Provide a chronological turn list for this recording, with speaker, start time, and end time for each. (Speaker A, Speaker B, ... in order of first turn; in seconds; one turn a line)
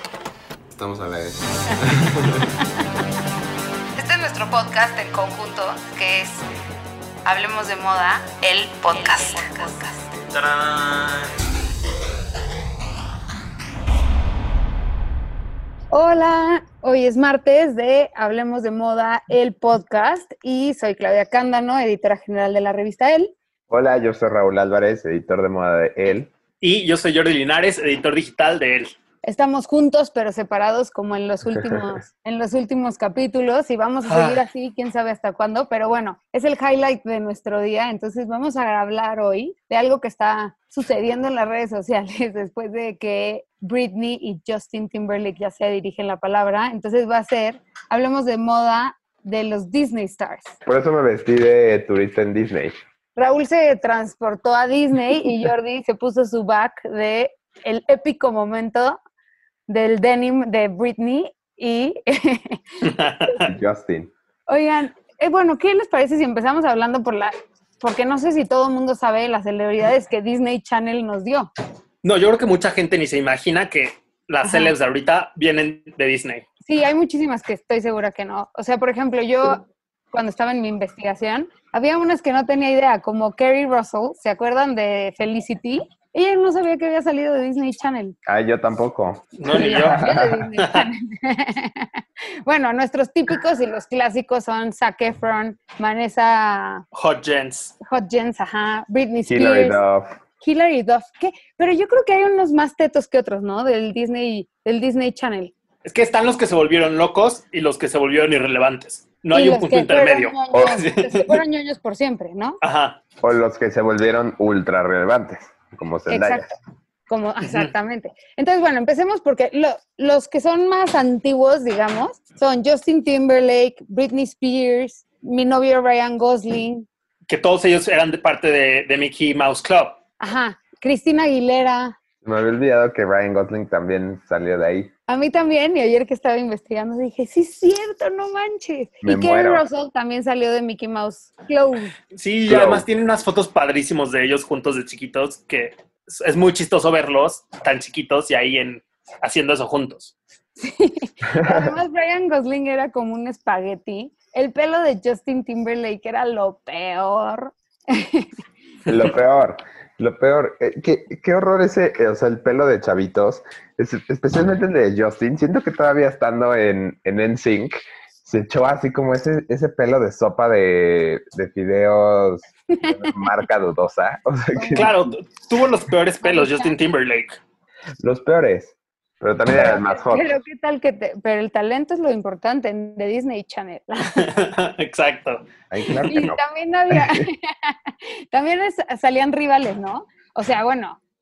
Speaker A: 0.7-2.5
Speaker B: 4.0-6.4
Speaker B: 7.2-10.1
Speaker C: 10.3-11.1
Speaker B: 15.9-23.3
Speaker A: 23.7-26.3
Speaker C: 26.6-28.9
Speaker B: 29.2-50.5
Speaker C: 34.1-34.4
Speaker A: 50.6-52.7
Speaker B: 53.1-59.0
Speaker B: 59.7-63.5
Speaker C: 62.8-63.5
Speaker A: 63.4-64.1
Speaker B: 64.5-71.5
Speaker C: 72.0-76.4
Speaker B: 74.4-74.7
Speaker B: 76.6-88.2
Speaker A: 88.2-90.5
Speaker C: 89.4-90.0
Speaker B: 89.5-96.8
Speaker C: 90.6-90.9
Speaker C: 96.9-97.7
Speaker B: 97.8-99.8
Speaker A: 99.3-100.1
Speaker B: 100.4-105.5
Speaker C: 105.8-111.4
Speaker B: 109.3-112.6
Speaker A: 110.5-110.8
Speaker C: 112.6-113.0
Speaker A: 113.2-116.5
Speaker B: 116.1-116.5
Speaker B: 117.1-126.9
Speaker C: 117.4-117.7
Speaker C: 127.3-129.9
Speaker B: 130.2-131.9
Speaker A: 132.2-134.9
Speaker B: 135.1-141.9
Speaker A: 139.0-139.6
Speaker C: 142.1-150.1
Speaker A: 142.5-142.8
Speaker B: 150.6-158.3
Speaker A: 151.3-151.8
Speaker A: 158.9-174.9
Speaker B: 172.7-173.3
Speaker B: 174.5-174.9
Speaker C: 174.8-177.4
Speaker B: 176.2-176.7
Speaker A: 178.0-180.3
Speaker B: 179.5-184.3
Speaker C: 184.2-186.1
Speaker A: 185.7-187.2
Speaker B: 186.1-191.0